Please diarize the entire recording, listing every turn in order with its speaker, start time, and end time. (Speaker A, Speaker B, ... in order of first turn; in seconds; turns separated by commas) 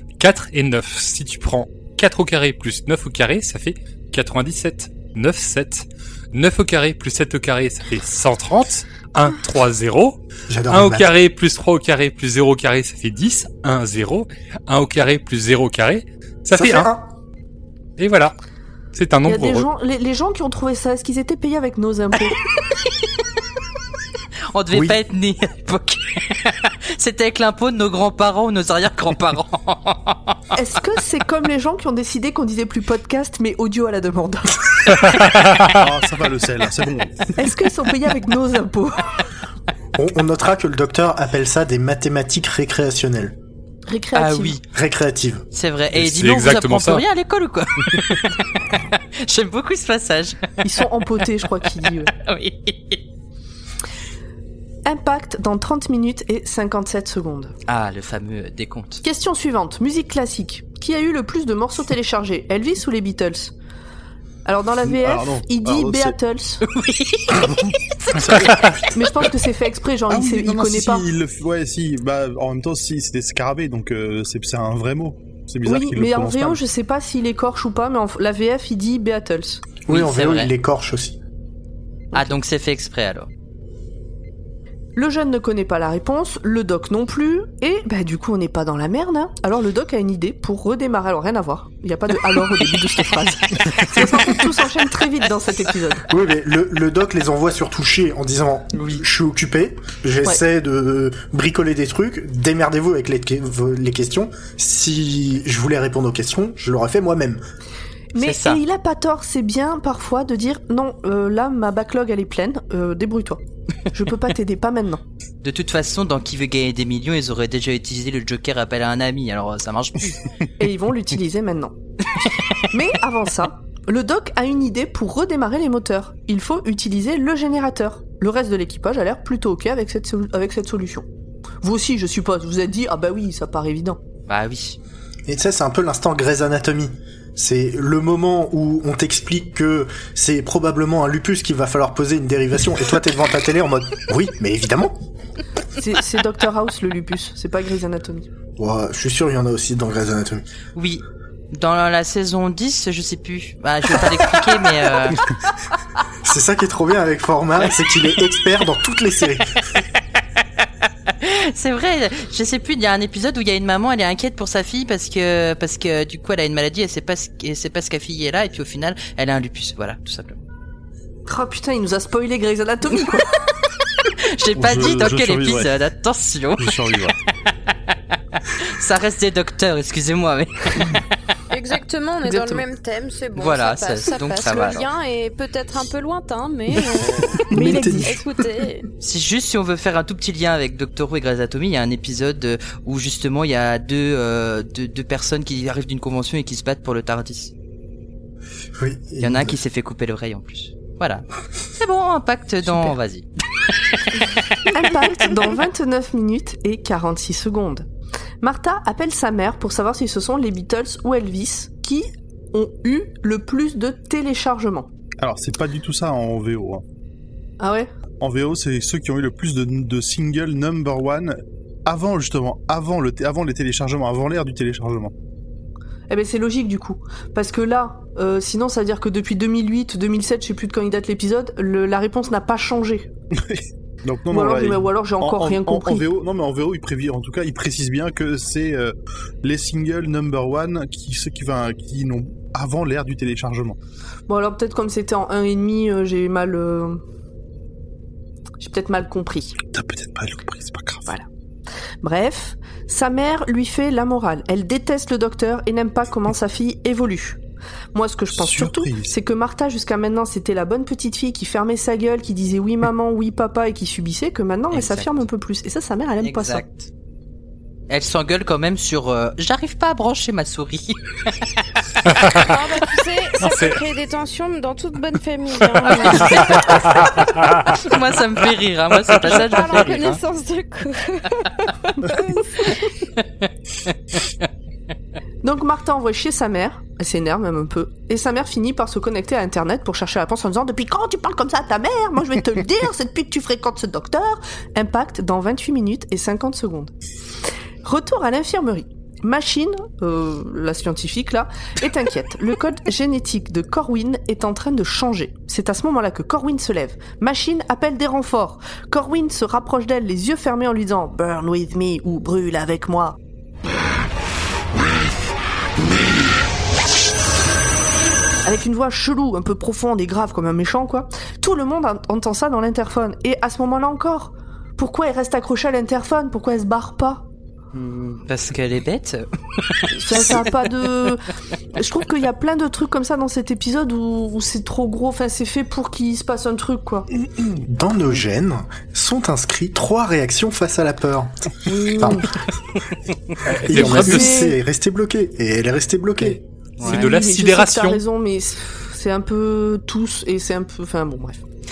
Speaker A: 0.2-16.9, Speaker B: 10.5-11.1, Speaker B: 16.5-17.1, Speaker A: 18.0-18.3, Speaker A: 18.9-19.7, Speaker C: 19.2-22.4, Speaker D: 24.5-30.4, Speaker B: 24.7-25.0, Speaker C: 30.5-35.0, Speaker A: 35.0-35.8, Speaker E: 35.7-37.3, Speaker C: 37.4-39.1, Speaker B: 39.9-43.4, Speaker C: 43.9-44.6, Speaker D: 44.1-44.6, Speaker B: 44.7-45.5, Speaker D: 45.5-50.8, Speaker A: 45.9-47.0, Speaker C: 50.6-52.1, Speaker D: 52.1-53.0, Speaker C: 54.8-57.5, Speaker D: 57.7-59.0, Speaker C: 59.0-63.5, Speaker C: 64.4-66.6, Speaker E: 64.8-66.2, Speaker D: 66.6-68.4, Speaker E: 68.1-68.9, Speaker C: 68.9-71.1, Speaker E: 70.1-76.6, Speaker C: 75.6-79.6, Speaker B: 79.8-81.2, Speaker D: 79.9-80.5, Speaker D: 82.1-83.3, Speaker C: 85.0-96.0, Speaker B: 96.1-107.4, Speaker D: 98.8-99.0, Speaker C: 108.1-115.0, Speaker D: 108.2-108.6, Speaker D: 115.4-120.2, Speaker C: 120.6-121.7, Speaker C: 122.7-131.1, Speaker C: 131.6-134.0, Speaker D: 134.3-134.8, Speaker B: 135.3-145.0, Speaker C: 145.8-148.3, Speaker B: 148.6-150.4, Speaker D: 150.8-155.2, Speaker B: 156.2-159.6, Speaker D: 161.2-170.4, Speaker C: 171.2-173.4, Speaker D: 174.2-176.9, Speaker E: 174.5-175.7, Speaker E: 176.6-177.2, Speaker D: 178.5-181.1, Speaker F: 181.5-188.9, Speaker D: 182.3-182.6, Speaker D: 183.3-184.8, Speaker C: 187.5-188.2, Speaker B: 187.5-188.2, Speaker D: 189.0-197.5, Speaker B: 198.8-199.6, Speaker D: 199.2-203.3, Speaker C: 204.7-207.8, Speaker C: 208.4-214.9, Speaker E: 215.2-216.8, Speaker C: 217.6-217.9, Speaker E: 218.2-225.1, Speaker C: 226.1-233.1, Speaker E: 233.3-243.8, Speaker C: 234.3-236.1, Speaker C: 244.3-247.0, Speaker C: 248.6-249.6, Speaker E: 249.6-251.1, Speaker C: 252.0-257.4, Speaker C: 257.9-266.6, Speaker E: 258.3-259.1, Speaker D: 264.7-265.2, Speaker D: 266.2-266.9, Speaker D: 267.9-271.6, Speaker A: 272.1-272.4, Speaker F: 272.3-277.0, Speaker A: 273.4-273.8, Speaker D: 275.9-277.1, Speaker A: 276.6-277.7, Speaker D: 277.7-280.2, Speaker F: 279.1-282.9, Speaker C: 285.4-296.9, Speaker C: 297.8-313.2, Speaker C: 318.4-327.2, Speaker D: 327.7-330.5, Speaker C: 329.9-337.1, Speaker B: 337.4-342.3, Speaker C: 341.7-342.2, Speaker A: 343.4-344.4, Speaker B: 343.6-346.4, Speaker C: 343.7-344.6, Speaker D: 346.8-347.1, Speaker A: 346.8-348.0, Speaker C: 346.8-351.4